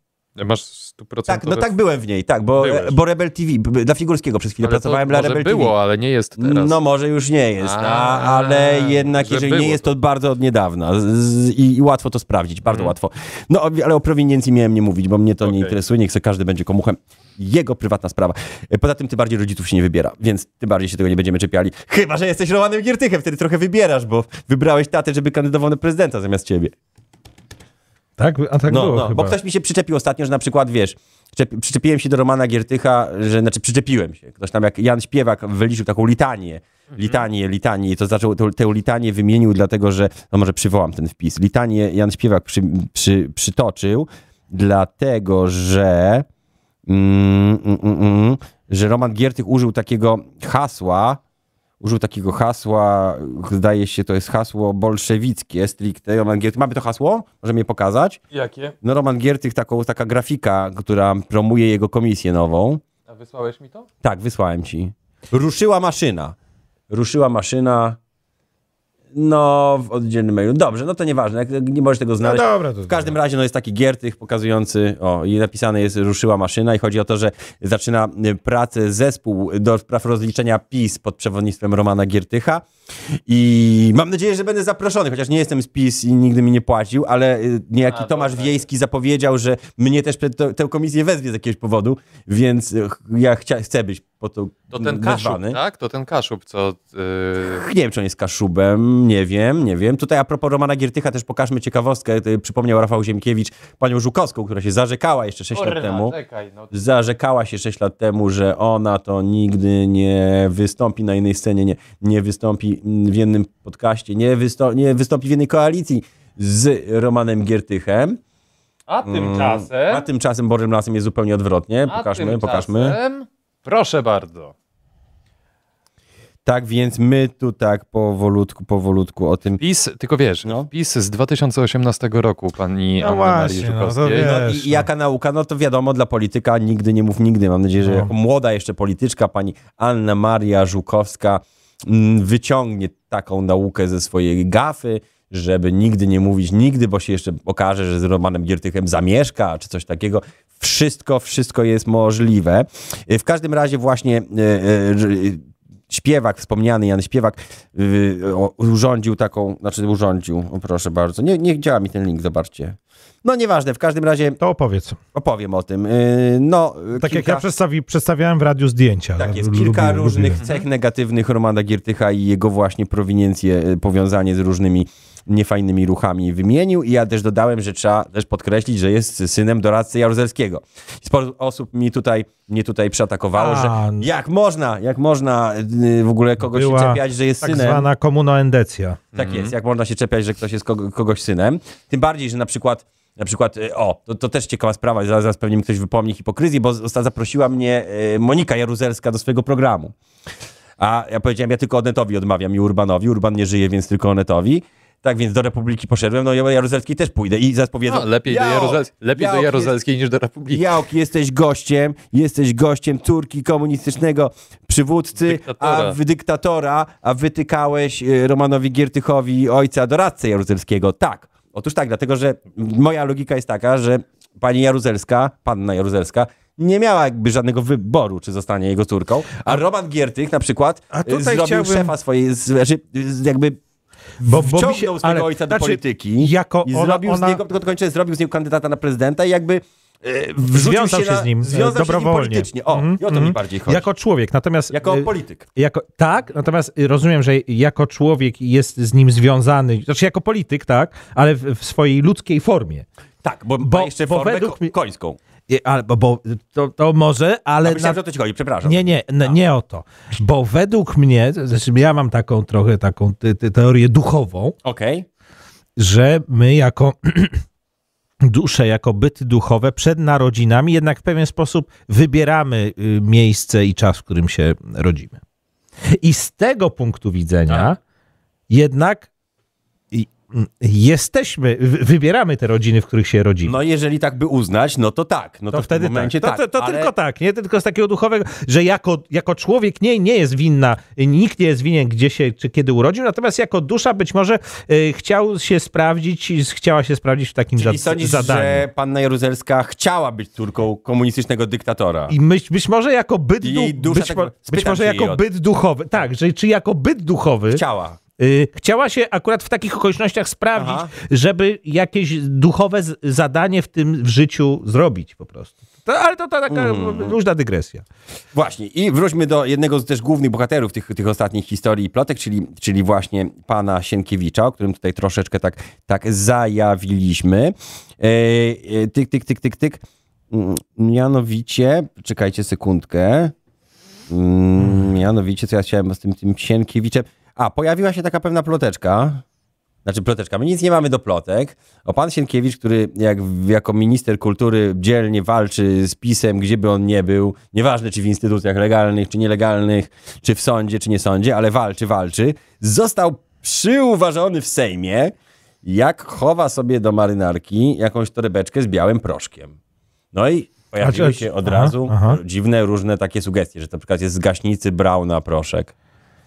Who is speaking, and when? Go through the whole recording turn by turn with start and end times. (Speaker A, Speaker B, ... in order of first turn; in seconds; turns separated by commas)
Speaker A: 0.4-1.7, Speaker B: 1.3-5.7, Speaker A: 2.6-3.0, Speaker A: 4.6-6.8, Speaker B: 6.4-26.7, Speaker A: 7.6-9.9, Speaker A: 12.7-12.9, Speaker A: 15.4-15.7, Speaker C: 28.2-29.4, Speaker B: 28.7-46.2, Speaker A: 36.9-37.2, Speaker B: 46.9-51.2, Speaker B: 51.8-58.2, Speaker A: 58.3-58.7, Speaker B: 58.8-62.8, Speaker A: 63.1-63.9, Speaker B: 64.0-66.3, Speaker B: 66.9-68.0, Speaker B: 69.1-82.6, Speaker C: 72.2-73.1, Speaker B: 83.3-95.6, Speaker A: 87.9-88.7, Speaker A: 94.7-97.6, Speaker B: 97.5-106.2, Speaker A: 105.5-106.8, Speaker B: 106.7-118.2, Speaker A: 118.9-120.0, Speaker B: 119.0-123.0, Speaker A: 121.9-124.5, Speaker B: 126.4-129.6, Speaker A: 129.6-134.3, Speaker C: 133.0-134.9, Speaker B: 134.1-164.4, Speaker C: 137.8-138.1, Speaker C: 164.4-165.0, Speaker B: 165.1-167.4, Speaker C: 167.0-170.4, Speaker B: 169.2-187.8, Speaker A: 170.4-170.6, Speaker C: 183.3-184.1, Speaker C: 186.4-189.0, Speaker A: 189.1-189.5, Speaker B: 189.1-199.9, Speaker B: 200.8-209.7, Speaker A: 207.9-210.7, Speaker B: 210.5-233.6, Speaker A: 215.2-216.0, Speaker C: 230.9-231.9, Speaker B: 234.2-243.9, Speaker C: 234.2-237.4, Speaker C: 240.5-252.8, Speaker B: 244.7-245.4, Speaker B: 253.2-255.2, Speaker C: 253.6-254.7, Speaker C: 255.5-258.0, Speaker B: 257.6-259.3, Speaker C: 258.6-264.5, Speaker B: 264.6-265.1, Speaker C: 265.8-267.4, Speaker C: 268.2-275.2, Speaker C: 275.9-277.8, Speaker C: 278.5-279.1, Speaker C: 279.9-283.5, Speaker B: 283.4-286.9, Speaker C: 285.5-298.7, Speaker B: 297.6-302.1, Speaker C: 302.1-307.6, Speaker B: 303.4-305.2, Speaker B: 307.5-308.0, Speaker C: 308.2-317.8, Speaker B: 310.5-310.9, Speaker B: 316.5-317.1, Speaker B: 318.3-333.3, Speaker B: 334.1-339.2, Speaker B: 339.8-359.6, Speaker B: 360.1-365.7, Speaker C: 360.8-362.2